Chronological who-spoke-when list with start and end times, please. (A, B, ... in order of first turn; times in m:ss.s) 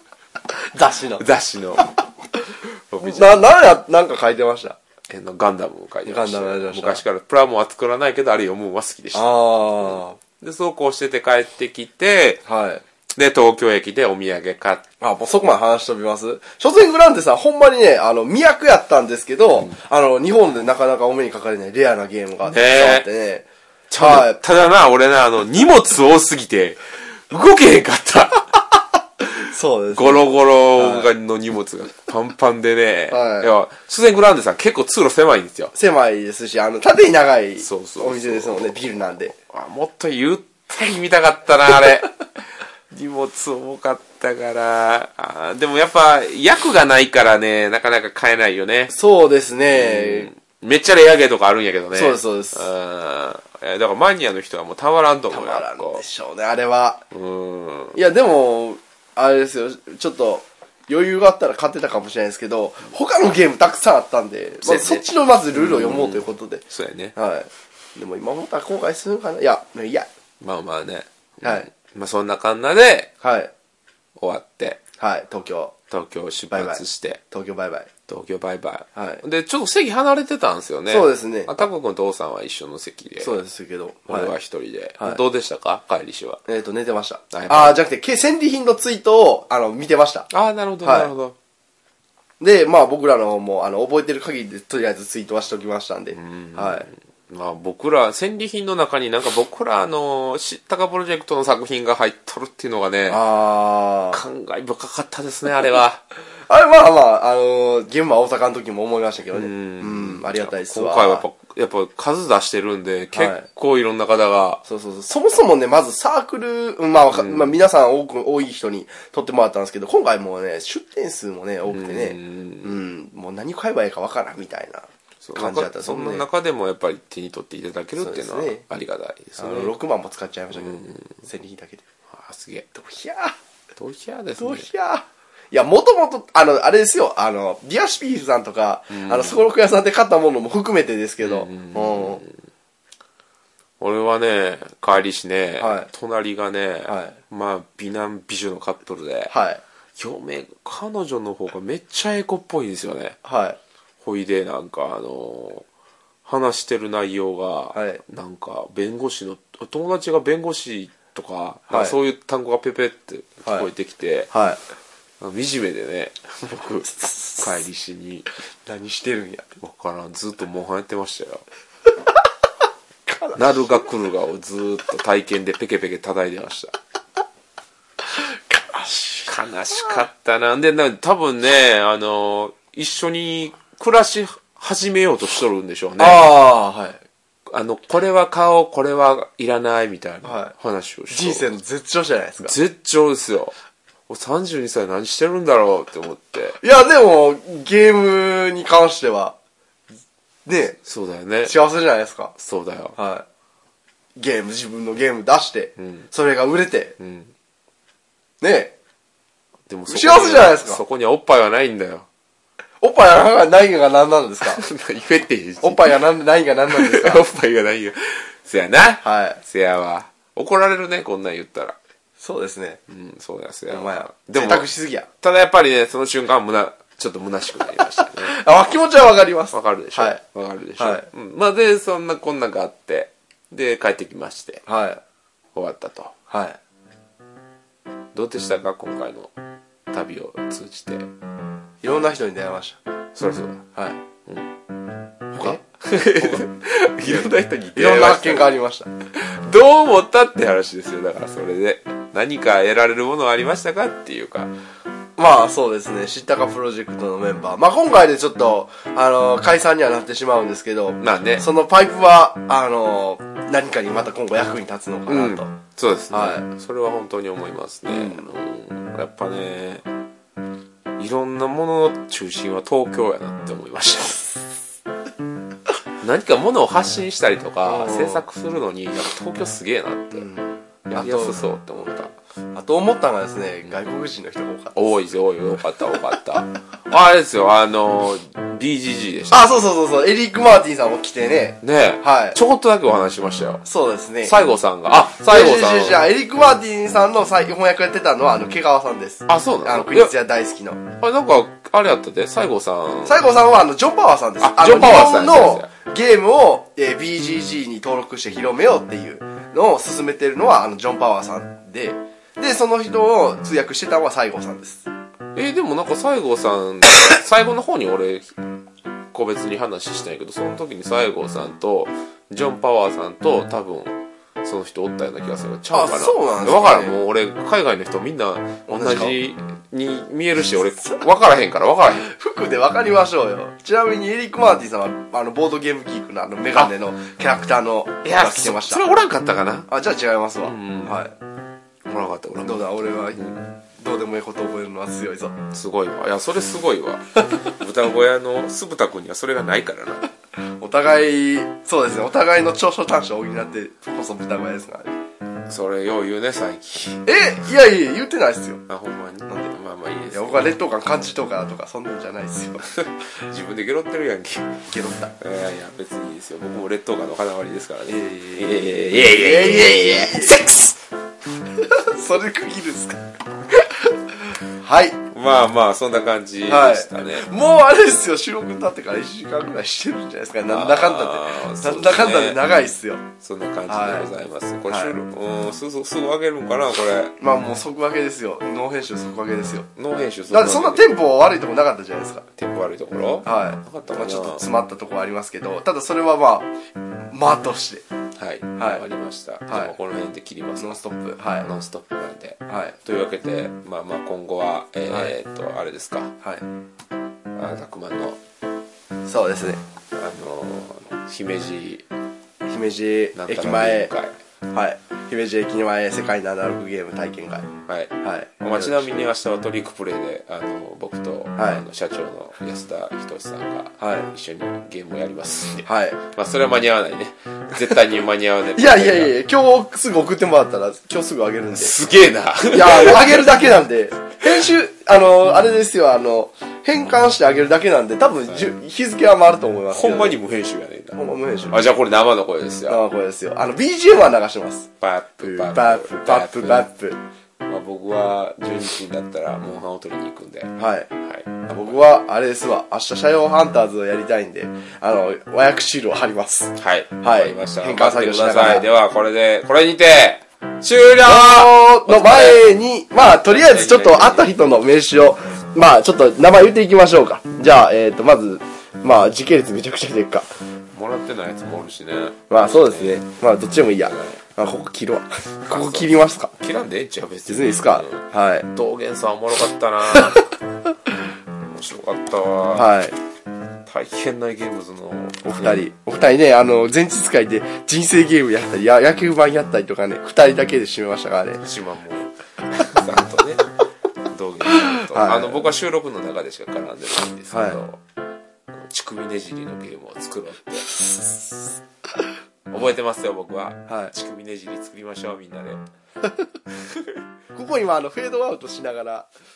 0:00.7-0:01.2 A
0:01.2-0:01.9 B
0:02.9-0:03.4 B
0:03.0-0:04.8 A
0:05.1-0:12.4 B
0:06.0-0:07.0 A
0:09.1-0:10.2 A
0:12.4-0:12.8 A
0:13.1-0:14.8 B
0:15.0-0:23.4 A
0:22.5-0:23.0 B
0:23.9-0:28.6 B
0:24.0-0:24.4 A
0:29.4-0:31.1 A
0:29.9-0:35.7 B
0:33.1-0:33.5 A
0:35.7-0:39.3 A
0:37.6-0:38.8 B
0:39.5-0:42.2 B
0:42.9-0:48.9 B
0:48.9-0:50.3 A
0:49.7-0:56.0 B
0:51.9-0:52.7 A
0:55.3-0:57.0 A
0:57.1-0:58.0 B
0:57.9-1:06.6 A
1:04.6-1:07.1 B
1:07.1-1:10.1 A
1:10.4-1:13.1 B
1:13.2-1:13.5 A
1:14.2-1:14.8 B
1:15.0-1:15.7 A
1:15.9-1:17.2 B
1:16.5-1:17.9 A
1:18.1-1:23.4 B
1:19.0-1:19.2 A
1:20.9-1:21.6 A
1:23.2-1:24.3 A
1:24.1-1:26.4 B
1:26.5-1:30.3 A
1:27.3-1:27.8 B
1:30.3-1:31.4 B
1:30.8-1:31.1 A
1:32.4-1:36.8 A
1:36.1-1:43.2 B
1:43.1-1:44.2 A
1:44.1-1:46.0 B
1:46.5-1:51.2 A
1:49.3-1:54.6 B
1:53.1-1:53.4 A
1:54.6-2:06.2 A
1:57.1-1:57.6 B
2:01.7-2:02.7 B
2:05.2-2:09.7 B
2:08.0-2:08.6 A
2:09.4-2:11.8 A
2:10.5-2:11.2 B
2:12.1-2:12.7 B
2:12.7-2:13.4 A
2:13.8-2:14.7 B
2:14.4-2:22.2 A
2:18.9-2:19.4 B
2:21.2-2:22.4 B
2:23.8-2:29.3 B
2:25.6-2:25.9 A
2:26.9-2:27.2 A
2:29.3-2:29.6 A
2:30.0-2:33.2 B
2:33.2-2:33.6 A
2:34.0-2:35.7 B
2:36.2-2:44.3 B
2:37.7-2:38.0 A
2:41.7-2:42.0 A
2:44.3-2:44.6 A
2:45.2-2:48.3 B
2:47.0-2:47.4 A
2:48.6-2:49.6 A
2:49.6-2:51.4 B
2:53.1-2:53.8 A
2:53.4-2:56.7 B
2:58.1-2:59.3 A
2:59.3-3:06.4 B
3:06.0-3:07.0 A
3:07.5-3:11.5 B
3:10.2-3:10.5 A
3:11.1-3:12.6 A
3:12.4-3:13.5 B
3:14.1-3:16.6 B
3:16.6-3:19.4 A
3:20.4-3:20.8 A
3:20.8-3:21.6 B
3:21.4-3:22.3 A
3:22.4-3:23.0 B
3:23.0-3:23.2 A
3:24.2-3:26.9 A
3:25.8-3:26.1 B
3:27.0-3:27.3 B
3:28.4-3:28.7 A
3:29.7-3:32.1 B
3:29.9-3:30.8 A
3:32.8-3:34.6 A
3:34.4-3:36.0 B
3:35.6-3:37.2 A
3:36.7-3:41.8 B
3:39.0-3:39.4 A
3:42.2-3:42.8 A
3:42.9-3:44.7 B
3:43.7-3:45.1 A
3:45.2-3:48.4 B
3:48.2-3:50.2 A
3:49.5-3:54.6 B
3:50.8-3:51.1 A
3:54.6-3:55.0 A
3:55.5-3:56.1 B
3:56.3-3:56.6 A
3:58.1-3:59.3 B
3:59.9-4:01.1 B
4:01.8-4:02.8 A
4:03.1-4:03.6 B
4:05.3-4:08.5 B
4:07.0-4:08.9 A
4:09.1-4:14.5 B
4:15.2-4:25.5 A
4:21.0-4:21.4 B
4:25.1-4:29.8 B
4:26.1-4:26.4 A
4:27.9-4:28.2 A
4:31.0-4:34.4 B
4:36.0-4:40.3 B
4:37.6-4:38.2 A
4:40.1-4:41.4 A
4:40.9-4:42.1 B
4:42.5-4:44.9 A
4:44.7-4:49.6 B
4:49.3-4:52.4 A
4:51.6-4:53.6 B
4:53.6-4:54.4 A
4:54.2-4:56.1 B
4:55.0-5:00.8 A
4:59.3-5:00.1 B
5:00.9-5:03.2 B
5:03.0-5:14.9 A
5:04.4-5:05.7 B
5:15.3-5:18.3 B
5:19.1-5:32.1 B
5:25.7-5:27.0 A
5:28.7-5:29.2 A
5:32.0-5:38.8 A
5:38.0-5:39.7 B
5:39.7-5:41.1 A
5:40.4-5:41.0 B
5:41.8-5:43.4 B
5:42.4-5:43.2 A
5:43.8-5:45.3 A
5:45.5-5:50.1 B
5:50.6-5:54.9 A
5:55.5-5:57.2 B
5:57.0-5:58.6 A
5:58.7-6:00.5 B
6:00.1-6:02.6 A
6:02.6-6:04.6 B
6:04.7-6:05.1 A
6:05.2-6:10.8 B
6:07.9-6:10.5 A
6:11.5-6:13.0 A
6:13.6-6:15.0 A
6:15.1-6:17.3 B
6:16.5-6:23.0 A
6:20.5-6:22.4 B
6:23.2-6:27.2 B
6:23.7-6:24.1 A
6:24.7-6:24.9 A
6:27.2-6:29.7 A
6:29.8-6:30.8 B
6:30.3-6:32.2 A
6:32.4-6:34.5 B
6:33.2-6:36.5 A
6:37.1-6:37.8 A
6:38.2-6:40.8 B
6:38.6-6:38.8 A
6:39.5-6:39.7 A
6:40.6-6:41.5 A
6:41.4-6:46.1 B
6:42.5-6:42.7 A
6:47.3-6:48.2 B
6:49.0-6:49.6 A
6:49.9-6:51.8 B
6:52.4-6:53.9 A
6:53.2-6:54.1 B
6:54.5-6:57.5 A
6:57.7-7:09.1 B
6:58.0-6:59.0 A
7:01.4-7:01.6 A
7:03.8-7:04.1 A
7:05.7-7:06.0 A
7:08.6-7:11.7 A
7:11.5-7:13.3 B
7:12.5-7:20.2 A
7:19.7-7:22.8 B
7:20.9-7:21.6 A
7:22.7-7:24.7 A
7:24.8-7:26.7 B
7:25.2-7:27.0 A
7:27.4-7:31.8 B
7:30.6-7:30.9 A
7:31.6-7:38.6 A
7:36.6-7:44.3 B
7:41.0-7:50.3 A
7:50.7-7:53.0 B
7:52.3-7:56.3 A
7:53.8-7:54.2 B
7:55.5-8:00.3 B
7:57.3-7:58.5 A
7:59.9-8:00.2 A
8:00.9-8:02.7 B
8:02.5-8:03.0 A
8:03.6-8:05.6 B
8:05.2-8:11.4 A
8:11.4-8:13.4 B
8:14.1-8:17.8 B
8:14.5-8:15.4 A
8:17.3-8:17.6 A
8:18.6-8:20.7 B
8:20.9-8:21.2 A
8:22.5-8:25.6 B
8:23.7-8:23.9 A
8:26.7-8:27.0 B
8:27.3-8:29.1 A